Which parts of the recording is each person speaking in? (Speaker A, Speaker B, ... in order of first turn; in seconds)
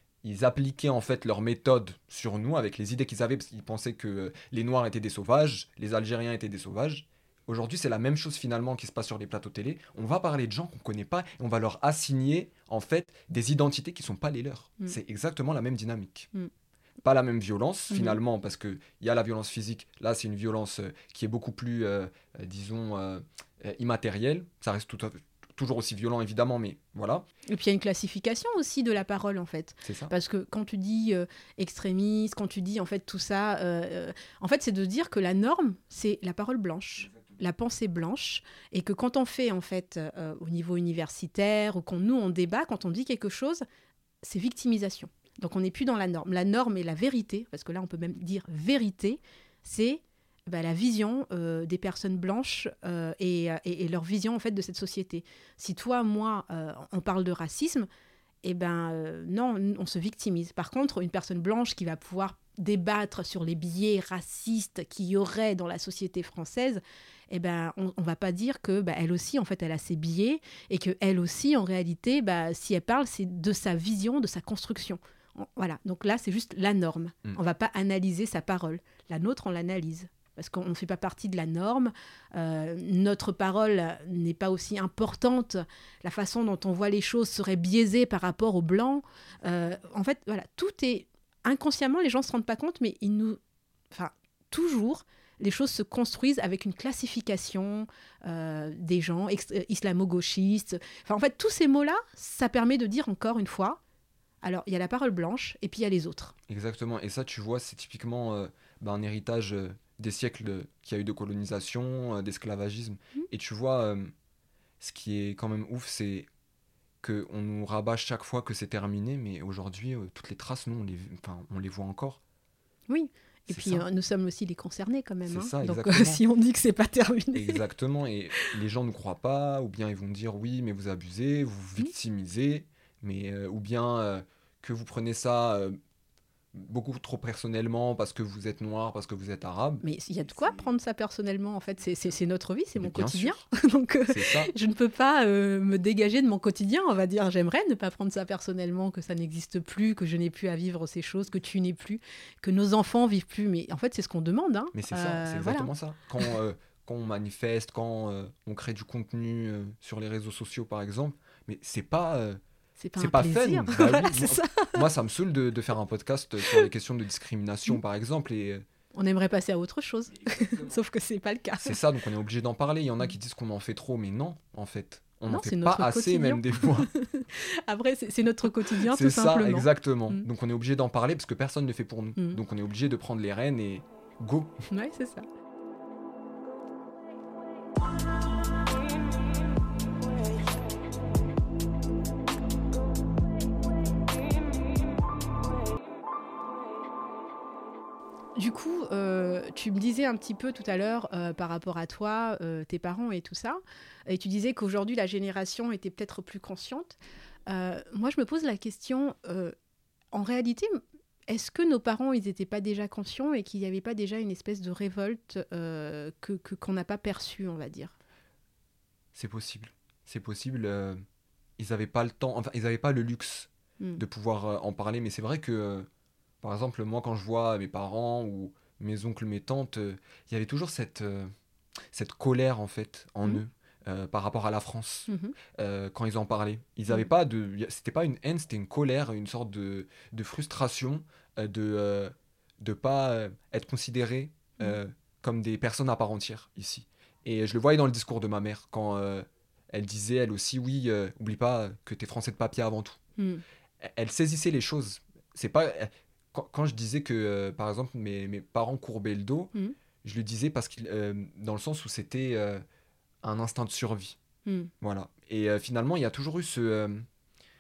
Speaker A: 0.2-16.3, 17.0-27.2, 29.8-30.1, 106.5-114.1, 114.8-116.3, 117.0-122.2, 123.5-123.8, 125.2-126.2, 127.3-135.8, 136.5-139.8, 142.8-143.4, 144.1-144.5, 154.7-162.4, 163.0-168.6, 170.3-170.7, 171.6-176.9, 178.7-184.7, 219.1-221.0, 221.6-225.9, 226.4-231.3, 231.9-253.0, 253.8-259.5, 260.0-262.6, 263.2-264.2, 264.8-267.1
Speaker B: 17.9-18.2, 27.5-43.6, 44.2-57.9, 58.4-93.4, 93.9-103.8, 104.4-106.3, 122.9-127.6, 139.8-155.7, 162.8-164.8, 168.9-171.8, 175.3-180.2, 184.7-185.2, 198.3-207.0, 207.5-209.5, 210.1-217.9, 235.1-235.3, 253.2-253.4